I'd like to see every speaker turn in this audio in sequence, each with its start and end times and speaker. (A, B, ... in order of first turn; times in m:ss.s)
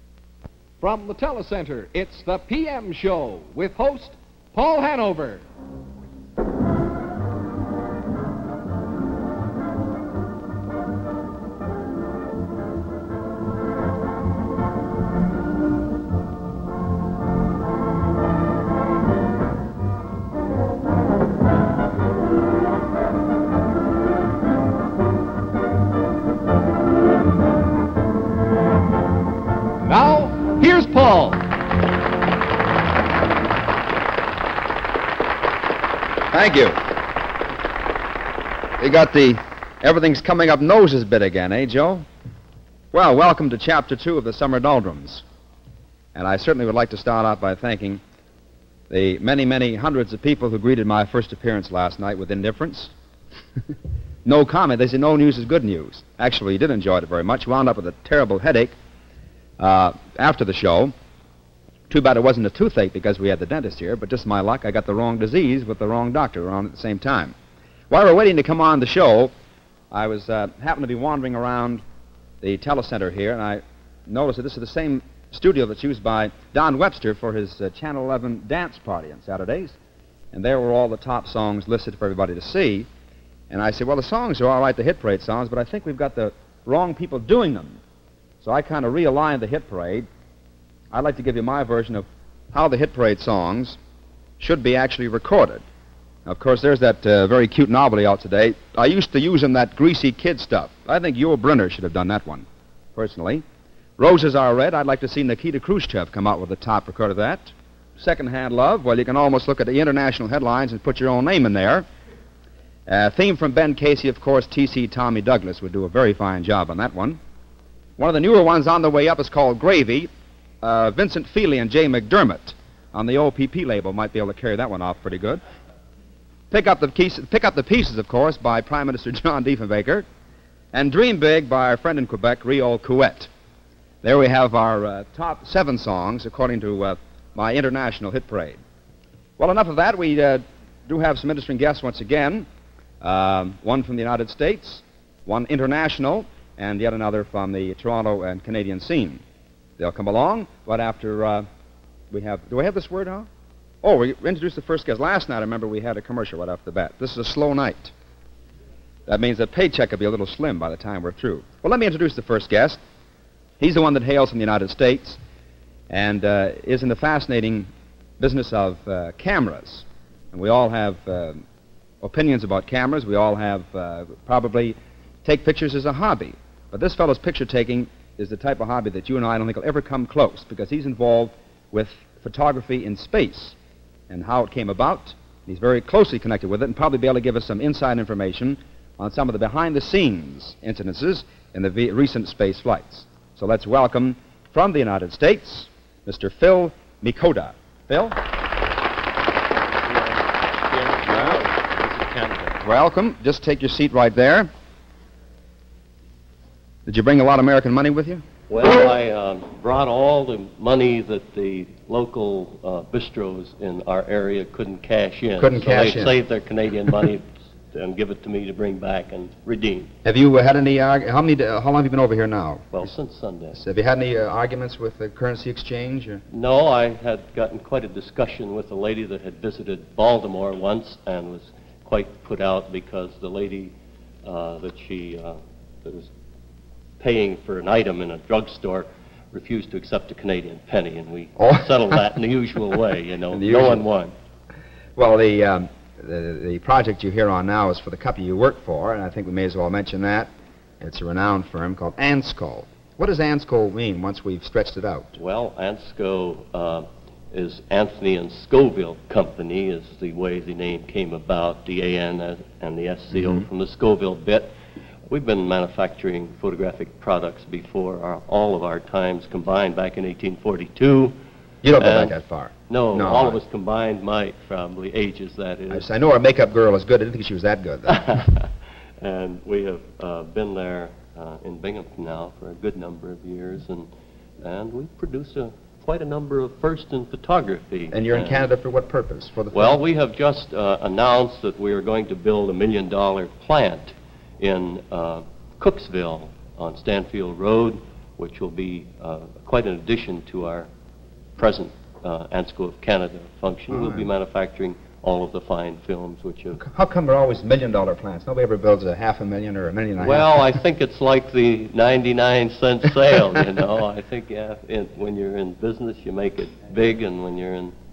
0:00.8-0:05.4 A
0:29.8-0:31.4 A
0:36.3-0:36.8 B
0:38.8-0:42.1 B
0:42.9-0:45.2 B
0:46.1-0:48.0 B
0:48.9-0:52.9 B
0:54.2-0:58.8 B
0:59.6-1:00.9 B
1:01.9-1:07.3 B
1:07.9-1:09.3 B
1:09.9-1:11.8 B
1:12.4-1:19.8 B
1:20.3-1:22.9 B
1:23.5-1:27.8 B
1:28.4-1:30.1 B
1:30.9-1:33.8 B
1:34.4-1:35.6 B
1:36.2-1:43.4 B
1:44.0-1:51.8 B
1:52.9-1:57.2 B
1:58.0-2:00.1 B
2:00.6-2:05.4 B
2:06.5-2:10.0 B
2:10.7-2:13.3 B
2:14.0-2:18.6 B
2:19.4-2:22.5 B
2:23.0-2:29.2 B
2:29.8-2:31.4 B
2:32.1-2:33.3 B
2:33.8-2:37.9 B
2:39.1-2:42.8 B
2:43.6-2:45.2 B
2:45.9-2:51.4 B
2:52.0-3:03.6 B
3:04.1-3:18.2 B
3:19.8-3:22.6 C
3:21.0-3:21.4 B
3:22.6-3:24.5 B
3:26.8-3:28.2 B
3:28.5-3:39.9 C
3:35.4-3:36.1 B
3:40.0-3:42.9 B
3:42.7-3:43.6 C
3:43.6-3:46.2 B
3:46.3-3:56.1 C
3:57.0-4:04.1 C
4:01.4-4:02.0 B
4:03.3-4:03.8 B
4:05.0-4:15.2 B
4:15.2-4:24.5 C
4:23.1-4:23.4 B
4:25.1-4:31.2 C
4:31.6-4:33.4 B
4:31.8-4:32.2 C
4:32.7-4:35.8 C
4:35.7-4:38.0 B
4:37.9-4:38.5 C
4:39.0-4:43.9 C
4:44.4-4:48.5 C
4:47.9-4:49.8 B
4:49.5-5:00.7 C
5:01.4-5:06.6 C
5:03.7-5:04.1 B
5:06.6-5:10.5 B
5:10.0-5:17.7 C